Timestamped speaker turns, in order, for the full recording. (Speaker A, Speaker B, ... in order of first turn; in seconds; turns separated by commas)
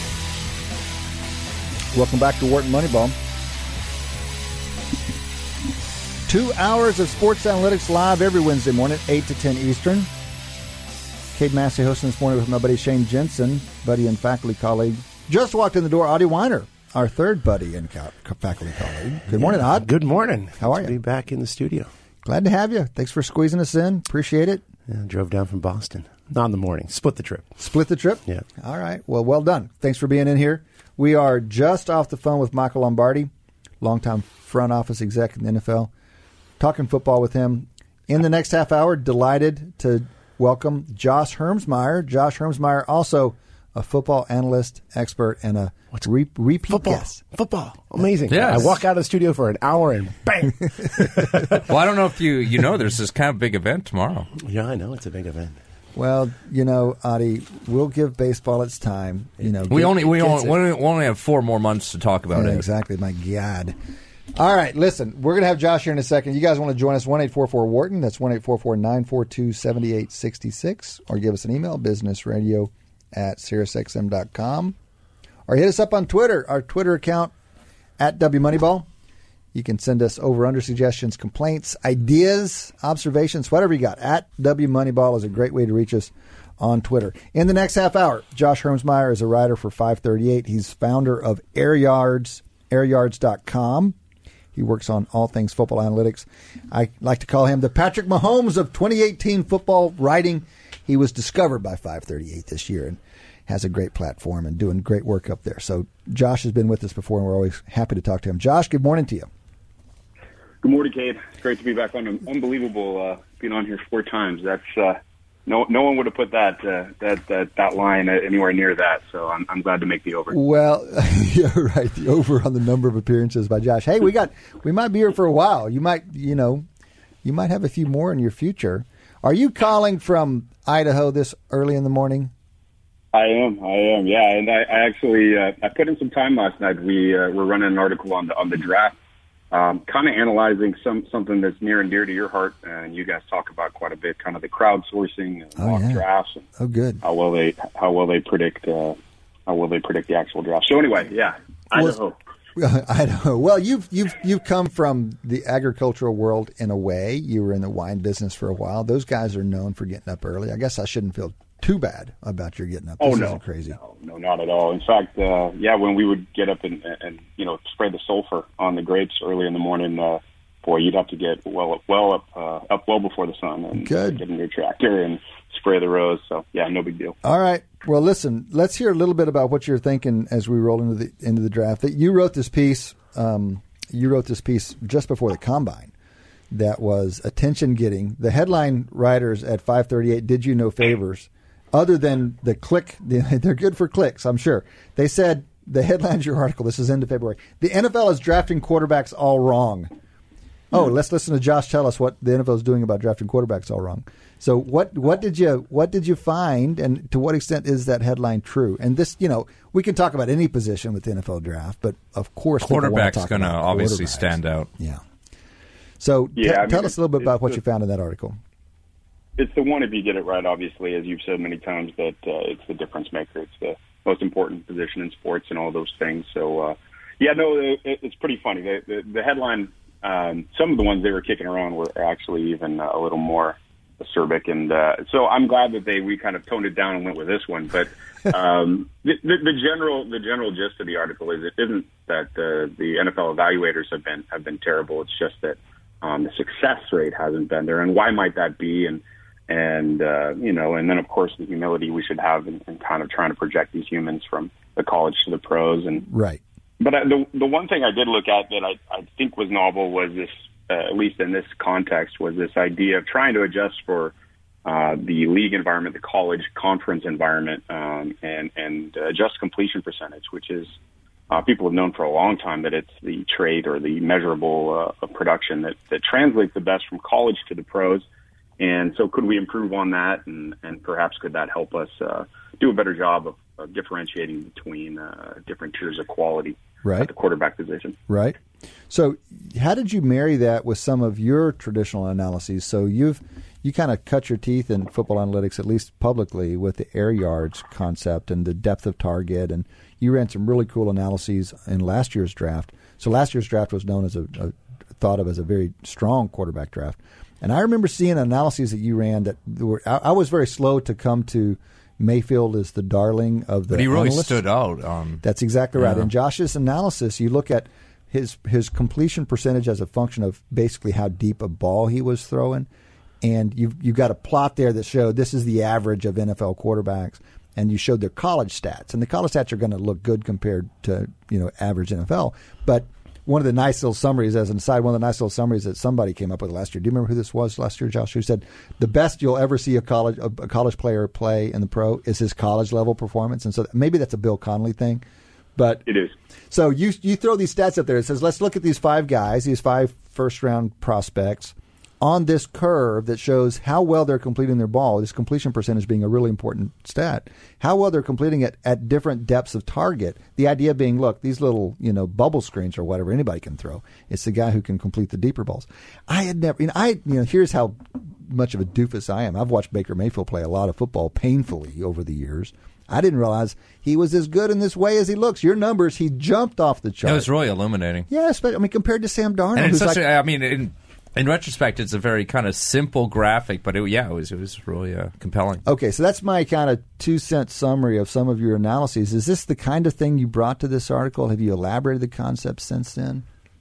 Speaker A: 1.9-3.1, Speaker A: 6.3-10.1, Speaker A: 11.3-19.9, Speaker B: 19.3-21.9, Speaker A: 20.6-20.9, Speaker A: 22.2-24.6, Speaker B: 24.9-27.6, Speaker A: 27.6-33.3, Speaker A: 33.8-35.9, Speaker A: 36.6-47.2, Speaker B: 46.7-51.6, Speaker C: 48.3-48.8, Speaker C: 51.3-54.3, Speaker B: 54.4-55.6, Speaker A: 56.0-60.6, Speaker C: 59.7-62.6, Speaker A: 62.3-63.8, Speaker A: 64.3-74.8, Speaker A: 75.5-77.3, Speaker A: 78.0-78.9, Speaker A: 79.5-94.0, Speaker A: 94.5-109.3, Speaker D: 110.6-120.4, Speaker A: 120.3-126.6, Speaker A: 127.2-132.3, Speaker D: 133.1-138.9, Speaker D: 139.5-146.5, Speaker A: 145.6-146.0, Speaker A: 146.6-147.0, Speaker D: 147.0-152.2, Speaker A: 152.6-163.8, Speaker D: 163.0-177.2, Speaker A: 173.8-174.2, Speaker A: 177.2-185.9, Speaker A: 186.5-199.9, Speaker A: 200.7-215.0, Speaker C: 212.6-214.7, Speaker A: 216.0-218.4, Speaker D: 216.4-217.3, Speaker D: 219.4-256.1, Speaker A: 256.1-256.4, Speaker D: 256.8-264.1, Speaker D: 264.6-270.8, Speaker D: 271.3-278.1, Speaker D: 278.6-288.0, Speaker A: 286.8-287.1, Speaker A: 288.1-288.4, Speaker A: 288.9-314.4, Speaker C: 313.7-315.2, Speaker A: 315.2-322.7, Speaker C: 315.8-316.1, Speaker A: 323.2-345.0, Speaker A: 345.6-345.9, Speaker D: 345.9-346.1, Speaker A: 346.5-377.3, Speaker C: 377.0-378.1, Speaker A: 378.1-380.0, Speaker C: 379.6-385.6, Speaker A: 385.7-393.2